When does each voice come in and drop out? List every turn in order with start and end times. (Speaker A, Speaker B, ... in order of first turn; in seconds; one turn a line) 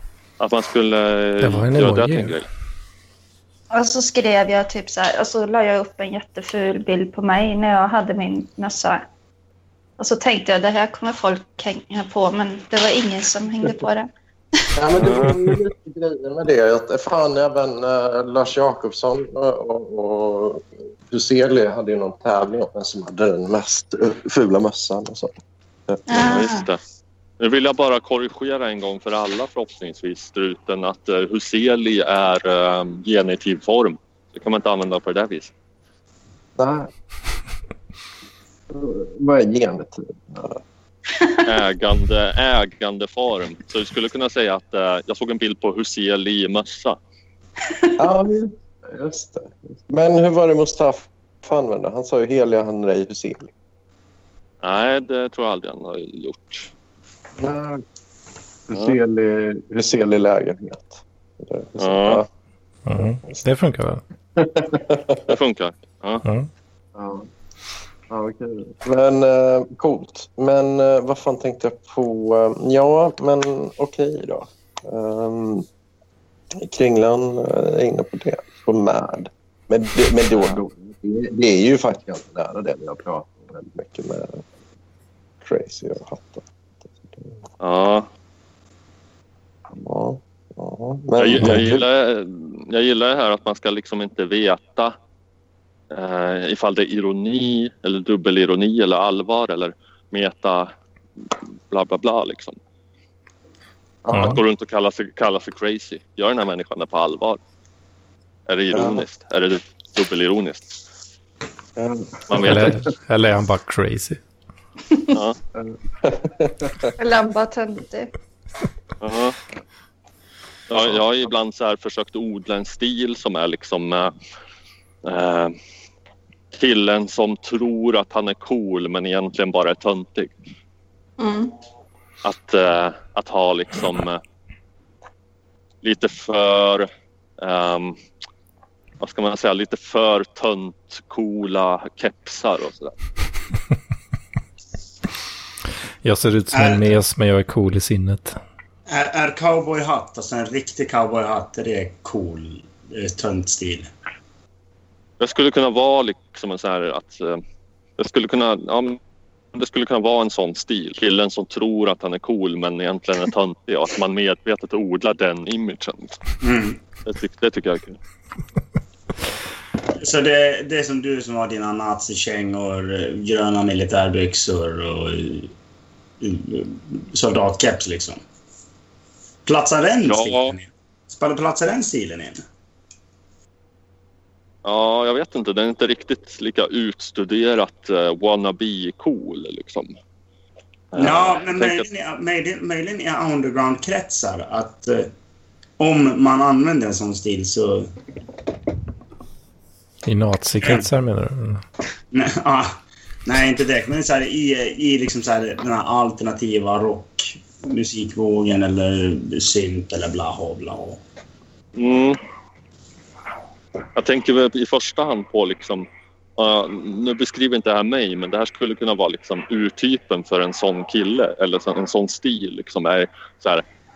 Speaker A: 0.4-2.5
Speaker B: 1.4-2.4
Speaker C: 3.7-9.0
Speaker C: 10.0-14.1
Speaker D: 14.8-26.3
Speaker A: 15.0-15.6
Speaker C: 26.1-26.7
Speaker A: 26.2-26.8
Speaker A: 27.4-35.5
Speaker D: 36.6-36.9
Speaker D: 38.7-40.6
Speaker A: 41.5-47.0
Speaker D: 48.0-53.5
Speaker A: 54.6-56.7
Speaker D: 57.4-57.8
Speaker D: 58.7-62.3
Speaker A: 61.8-62.2
Speaker B: 62.9-64.0
Speaker D: 63.0-63.4
Speaker D: 64.4-65.3
Speaker A: 65.2-66.2
Speaker B: 66.2-66.5
Speaker D: 67.0-67.3
Speaker D: 68.1-75.7
Speaker D: 76.6-84.4
Speaker A: 80.3-80.6
Speaker D: 85.4-86.5
Speaker D: 87.0-87.3
Speaker A: 87.6-88.1
Speaker D: 89.7-91.9
Speaker A: 91.2-95.0
Speaker A: 95.9-100.7
Speaker A: 101.2-102.6
Speaker D: 104.0-104.4
Speaker B: 104.1-104.4
Speaker A: 104.2-107.4
Speaker A: 108.5-110.8
Speaker D: 108.7-109.0
Speaker D: 111.8-112.8
Speaker A: 112.3-112.8
Speaker B: 112.4-114.2
Speaker D: 115.5-116.9
Speaker C: 117.0-118.1
Speaker A: 119.0-119.4
Speaker A: 120.7-124.1
Speaker A: 125.0-125.6
Speaker A: 126.6-130.3
Speaker C: 131.2-131.5
Speaker A: 132.2-134.2
Speaker A: 135.8-136.9
Speaker A: 137.4-138.0
Speaker A: 139.0-142.9
Speaker B: 146.0-148.4
Speaker E: 146.5-146.9
Speaker E: 148.9-153.9
Speaker A: 155.2-157.4
Speaker A: 158.0-159.0
Speaker A: 159.5-166.2
Speaker E: 166.4-166.8
Speaker A: 167.1-168.0
Speaker E: 170.0-175.5
Speaker E: 176.2-178.2
Speaker E: 179.5-182.4
Speaker A: 180.1-180.6
Speaker A: 184.6-189.9
Speaker A: 190.9-191.9
Speaker E: 191.0-195.1
Speaker E: 195.8-197.9
Speaker B: 200.0-201.6
Speaker E: 202.1-211.0
Speaker A: 211.8-212.2
Speaker A: 213.9-215.9
Speaker A: 216.4-223.6